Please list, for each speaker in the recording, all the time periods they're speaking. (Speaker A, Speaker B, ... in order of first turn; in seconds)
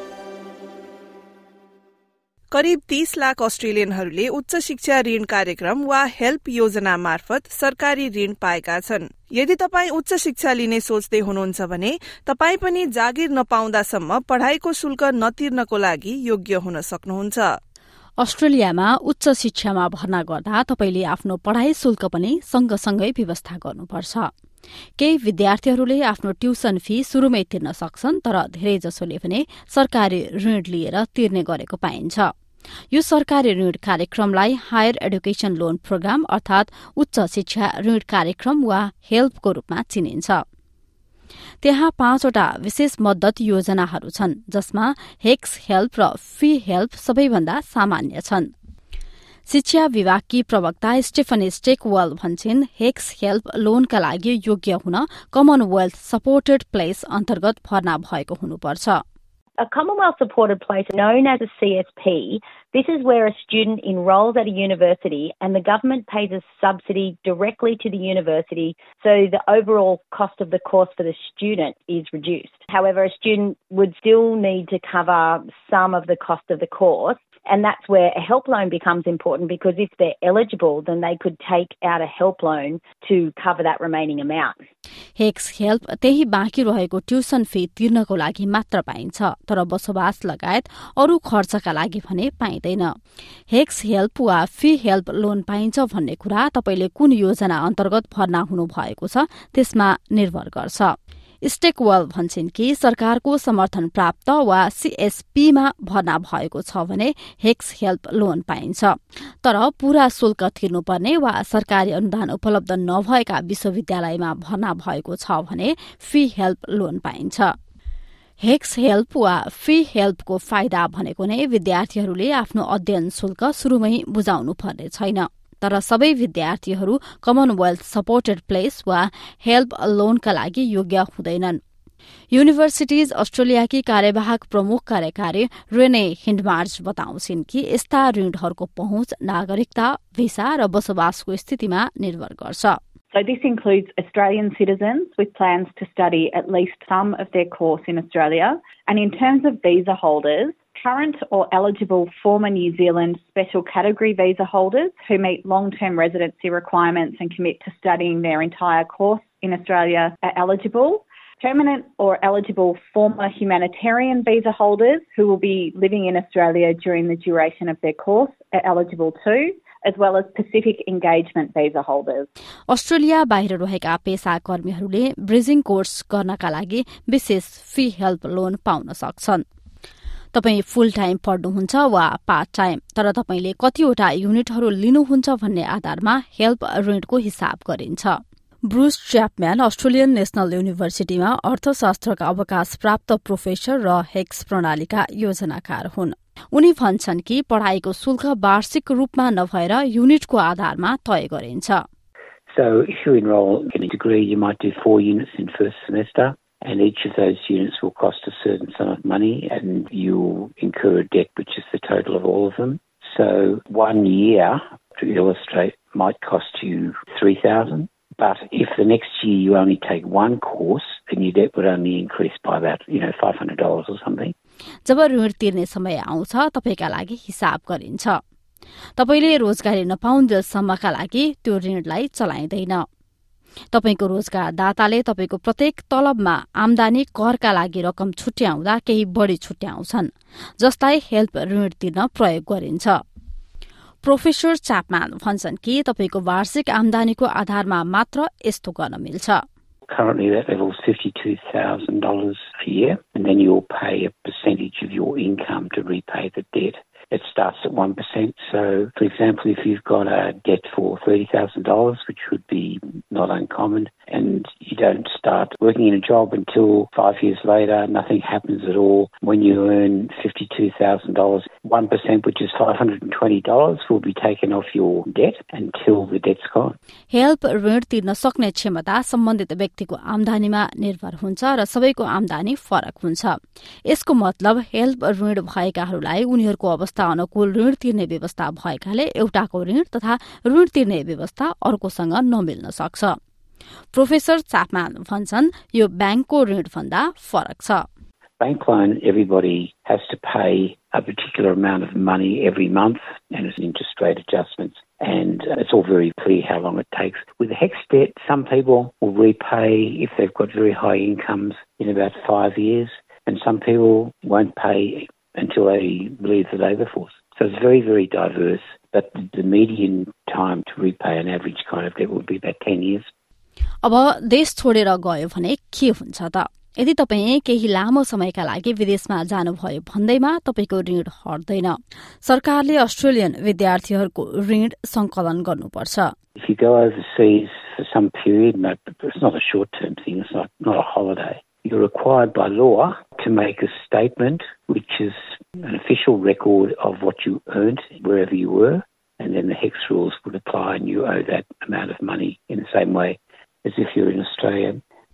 Speaker A: 2.5-17.5
Speaker B: 18.2-24.3, 25.0-32.3, 32.9-40.4, 41.6-48.5, 49.5-59.0, 85.2-92.9, 93.5-100.9, 101.4-117.5, 118.4-131.6, 132.3-142.8, 172.7-179.4, 180.3-201.8, 224.9-228.2, 229.0-232.8, 233.7-243.0, 244.0-249.4, 277.1-283.4, 283.9-293.2, 293.9-297.9, 323.8-336.1
Speaker C: 59.6-84.6
Speaker D: 143.1-172.3
Speaker E: 202.5-224.3, 249.9-276.8, 298.4-323.1, 336.4-354.8